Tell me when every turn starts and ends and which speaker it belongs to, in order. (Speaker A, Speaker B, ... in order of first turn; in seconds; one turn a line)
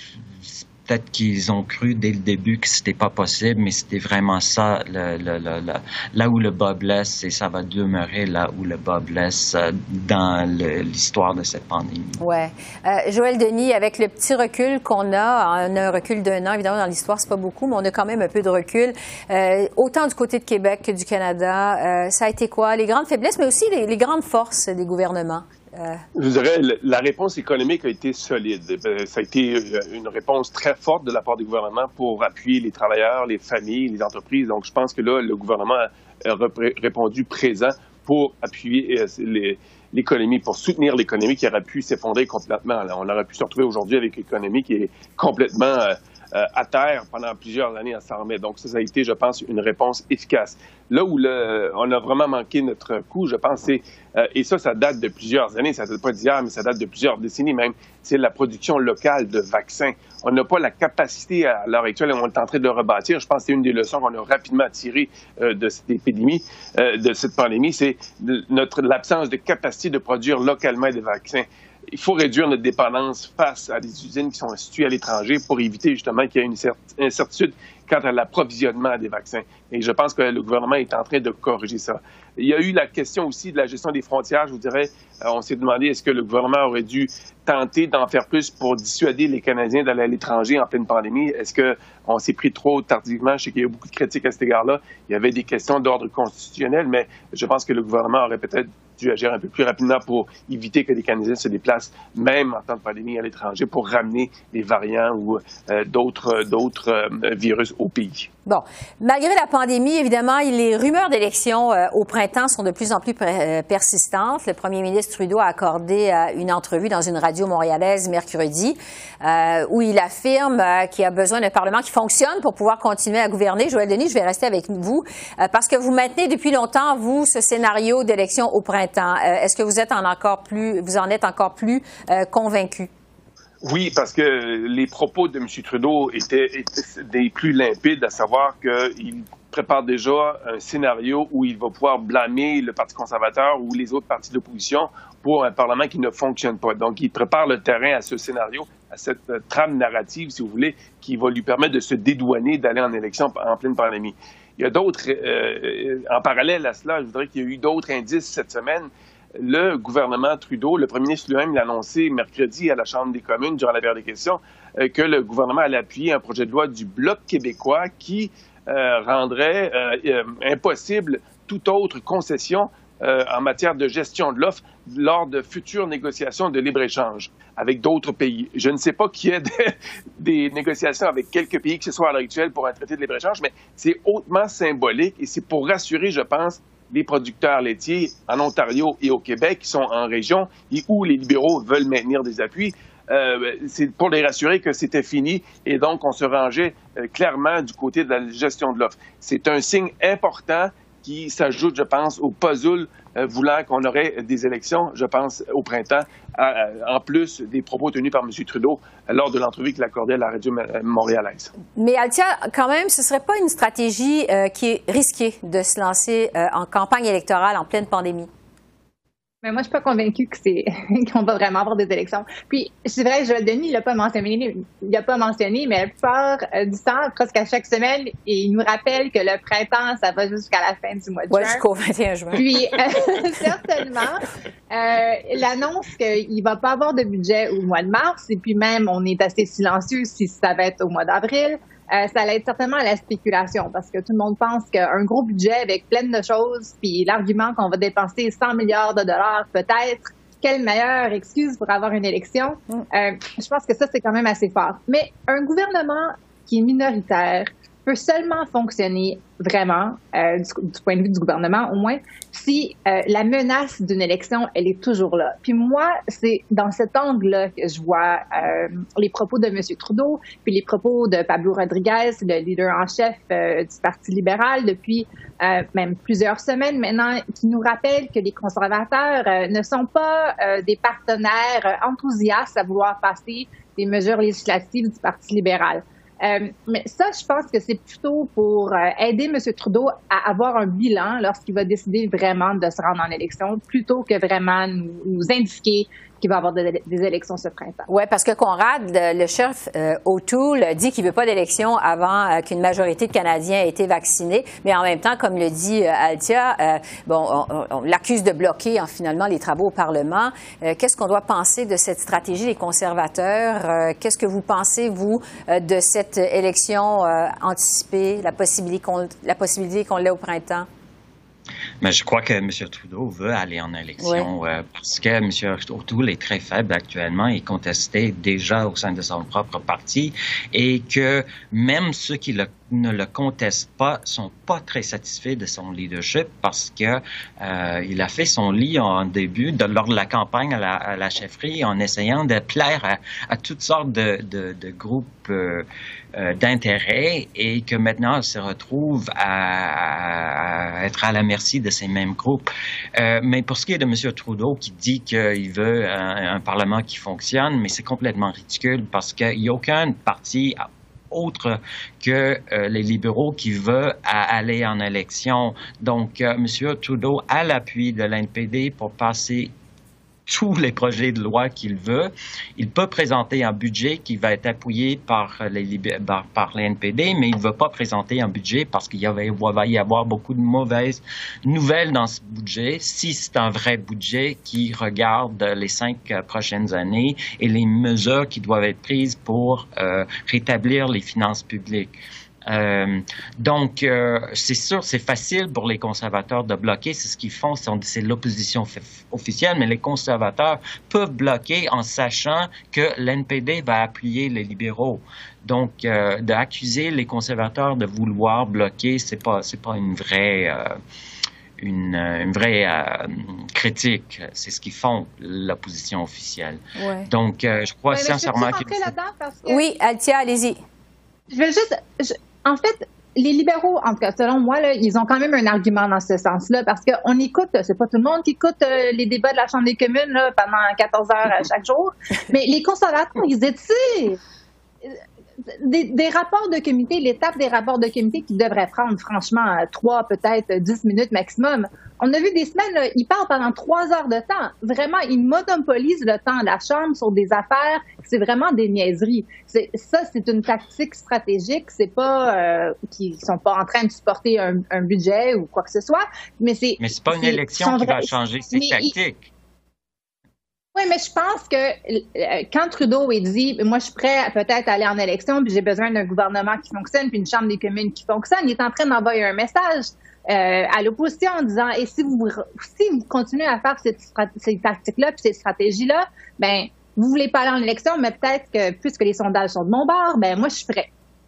Speaker A: 0.5-12.2
Speaker B: 12.2-26.0
Speaker C: 26.1-108.3
Speaker B: 108.5-132.9
Speaker C: 133.6-211.5
Speaker B: 211.8-218.3
Speaker D: 219.4-231.6
Speaker B: 231.3-233.0
Speaker D: 232.3-297.9
Speaker B: 297.9-320.7
Speaker A: 321.8-369.5
Speaker B: 324.0-324.3
Speaker A: 370.3-391.9
Speaker A: 392.5-410.7
Speaker A: 411.6-418.9
Speaker B: 416.8-417.1
Speaker D: 417.9-419.6
Speaker B: 419.4-420.6
Speaker D: 421.3-434.2
Speaker D: 435.5-458.9
Speaker A: 456.8-459.3
Speaker D: 460.8-480.9